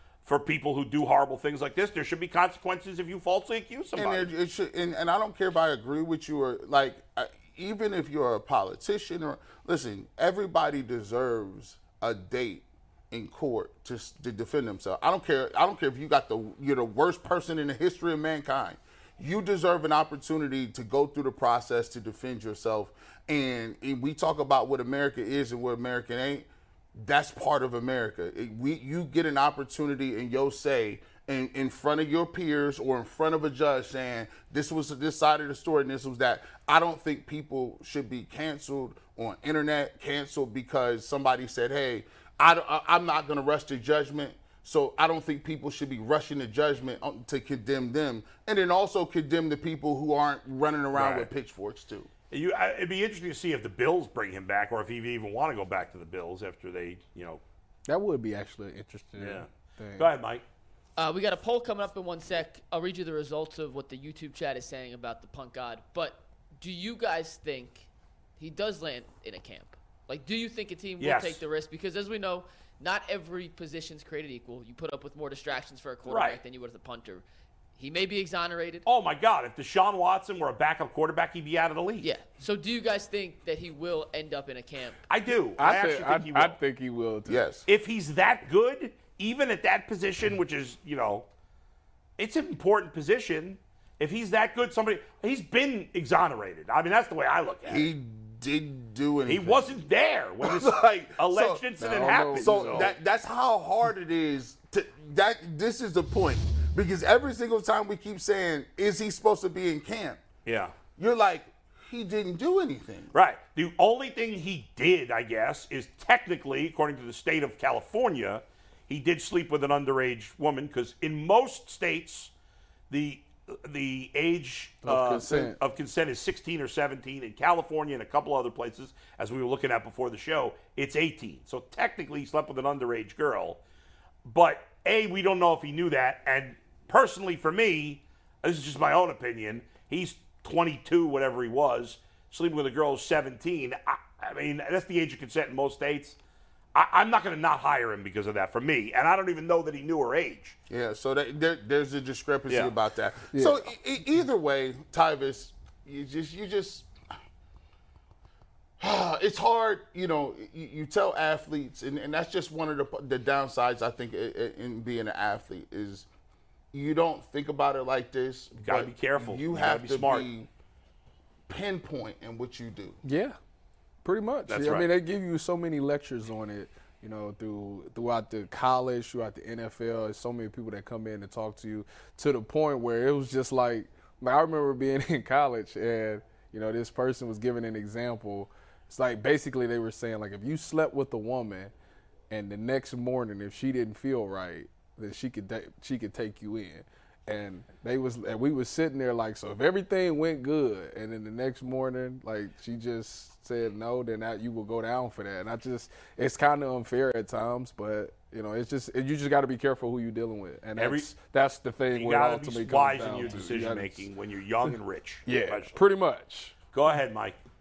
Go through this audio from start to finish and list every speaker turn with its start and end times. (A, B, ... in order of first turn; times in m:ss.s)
0:00.2-0:04.3 A
0:04.0-0:52.1 B
0:50.9-0:51.3 A
0:52.3-0:57.4 A
0:57.9-1:00.1 C
0:59.2-1:00.4 A
1:01.0-1:17.2 D
1:11.0-1:11.4 A
1:16.0-1:16.4 A
1:17.8-1:18.8 D
1:18.8-1:22.1 A
1:22.0-1:25.0 D
1:25.1-1:26.6 A
1:25.6-1:27.4 C
1:27.2-1:27.6 B
1:27.7-1:31.2 A
1:32.2-1:37.9 A
1:37.6-1:39.8 B
1:39.3-1:42.9 A
1:40.4-1:41.6 B
1:41.8-1:42.9 C
1:42.3-1:50.2 B
1:50.4-1:50.7 A
1:51.0-1:53.1 B
1:53.1-2:02.3 A
2:02.9-2:13.6 A
2:04.8-2:05.6 C
2:14.2-2:26.2 A
2:26.7-2:30.6 A
2:30.7-2:36.9 B
2:33.3-2:33.7 C
2:38.8-2:46.0 B
2:46.7-2:50.5 B
2:48.6-2:50.3 A
2:51.5-2:53.0 B
2:53.0-2:53.4 C
2:54.0-3:11.7 C
2:54.5-2:54.9 A
3:12.3-3:34.1 C
3:30.8-3:31.1 A
3:31.9-3:35.8 A
3:35.2-3:36.5 C
3:36.7-3:37.4 A